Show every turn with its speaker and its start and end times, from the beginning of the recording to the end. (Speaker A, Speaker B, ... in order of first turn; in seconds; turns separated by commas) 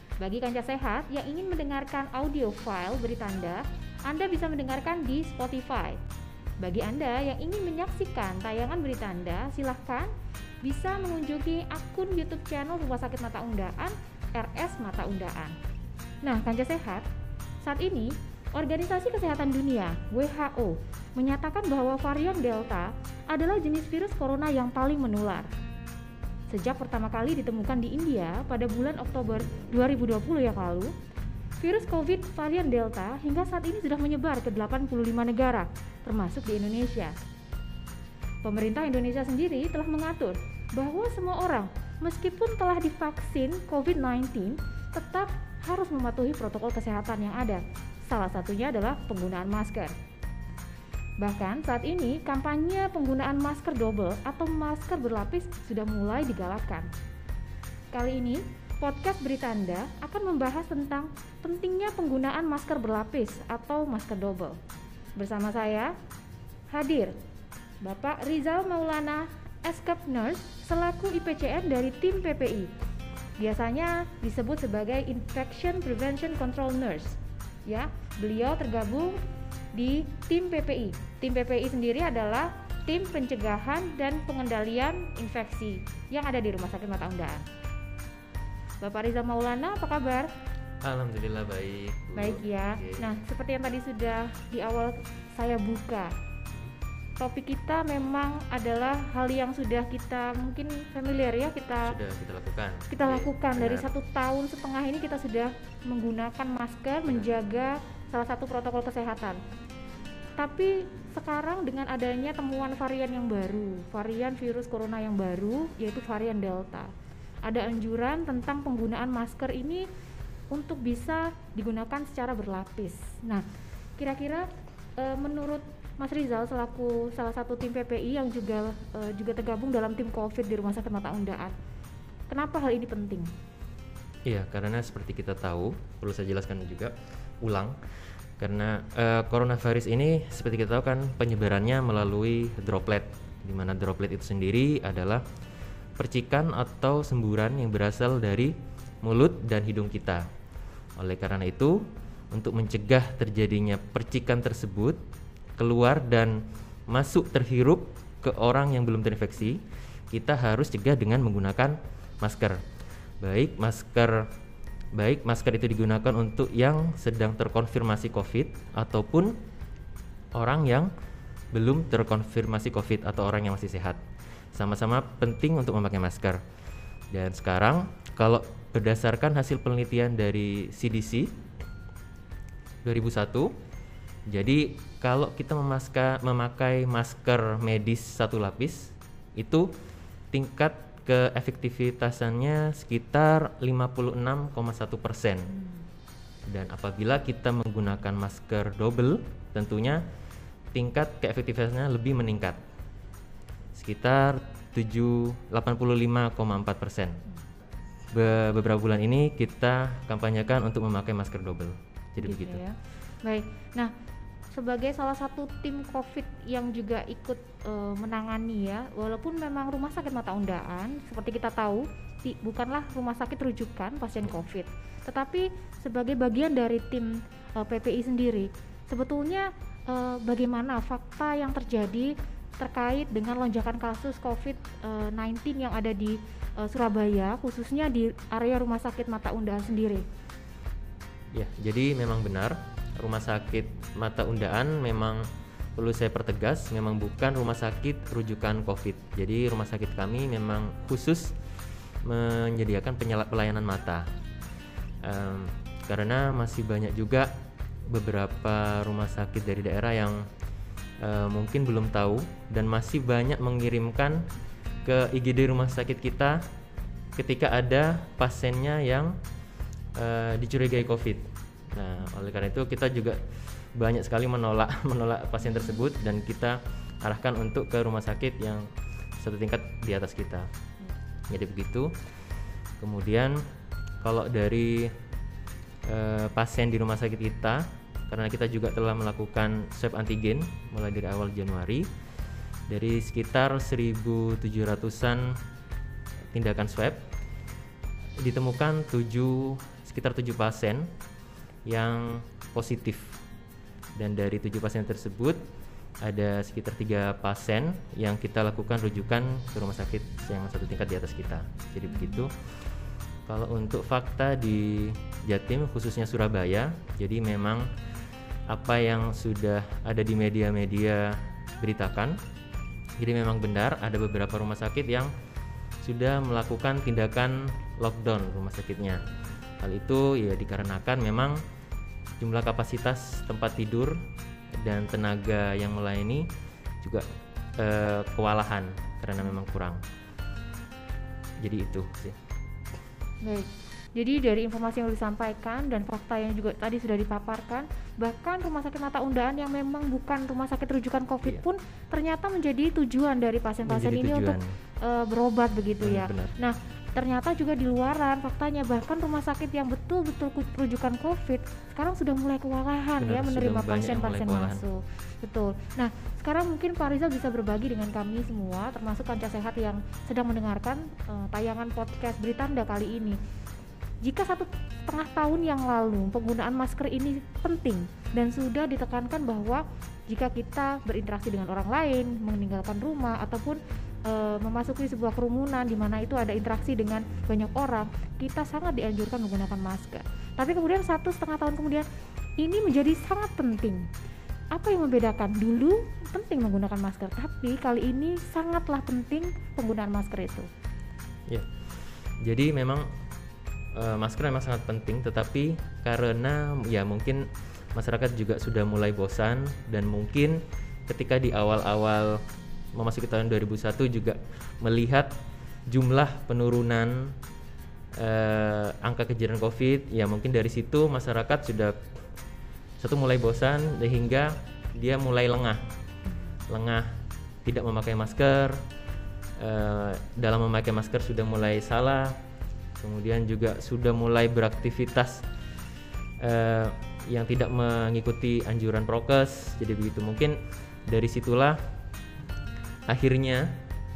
Speaker A: 0.2-6.0, Speaker A: 6.6-10.1, Speaker A: 10.6-15.6, Speaker A: 16.2-17.1, Speaker A: 17.6-25.5, Speaker A: 26.5-30.9, Speaker A: 31.6-37.2, Speaker A: 38.4-49.9, Speaker A: 51.2-56.9, Speaker A: 57.9-64.6, Speaker A: 65.2-66.0, Speaker A: 66.7-67.2, Speaker A: 67.8-72.7, Speaker A: 73.4-79.2, Speaker A: 79.8-87.4, Speaker A: 88.8-90.3, Speaker B: 90.8-93.2, Speaker A: 92.2-96.1, Speaker A: 97.2-102.0, Speaker B: 101.8-103.9, Speaker A: 102.9-109.4, Speaker A: 110.4-116.9, Speaker A: 117.5-119.9, Speaker A: 120.5-123.5, Speaker A: 124.0-131.5, Speaker A: 132.3-133.3, Speaker B: 134.3-137.8, Speaker B: 138.4-145.2, Speaker B: 146.0-150.3, Speaker B: 151.0-155.0, Speaker B: 155.6-162.6, Speaker B: 163.2-164.3, Speaker B: 165.0-169.4, Speaker B: 170.3-170.9, Speaker B: 171.5-174.0, Speaker B: 174.5-176.4, Speaker B: 177.1-181.4, Speaker B: 182.8-183.5, Speaker B: 184.3-189.7, Speaker B: 190.3-195.5, Speaker A: 195.5-195.8, Speaker B: 196.5-200.0, Speaker B: 200.7-202.6, Speaker B: 203.7-207.2, Speaker B: 208.1-212.6, Speaker A: 212.2-213.9, Speaker A: 214.5-240.1, Speaker B: 241.3-251.4, Speaker B: 252.0-254.1, Speaker B: 255.0-260.3, Speaker B: 261.0-264.3, Speaker B: 264.8-266.4, Speaker B: 267.2-269.2, Speaker B: 269.9-280.5, Speaker B: 281.3-282.0, Speaker B: 282.8-283.4, Speaker B: 284.0-284.9, Speaker B: 285.9-291.9, Speaker B: 292.7-295.4, Speaker B: 296.3-297.1, Speaker B: 298.2-300.9, Speaker B: 301.7-303.2, Speaker B: 304.0-305.4, Speaker B: 306.0-312.3, Speaker A: 311.9-312.2, Speaker B: 313.3-317.7, Speaker B: 318.5-322.2, Speaker B: 323.0-325.1, Speaker B: 325.8-329.0, Speaker B: 329.6-331.4, Speaker B: 332.2-334.0, Speaker B: 334.5-336.3, Speaker B: 337.6-339.8, Speaker B: 341.4-342.2, Speaker A: 343.2-373.2, Speaker B: 353.6-354.6, Speaker B: 355.8-356.4, Speaker B: 363.0-364.6, Speaker A: 374.0-391.9, Speaker A: 392.4-393.9, Speaker A: 394.5-400.5, Speaker B: 401.3-402.9, Speaker B: 403.8-412.2, Speaker B: 412.7-415.2, Speaker B: 415.7-417.2, Speaker B: 417.9-421.9, Speaker B: 422.8-425.7, Speaker B: 426.5-428.6, Speaker B: 429.4-432.2, Speaker B: 432.8-435.3, Speaker B: 436.2-441.6, Speaker B: 442.9-443.6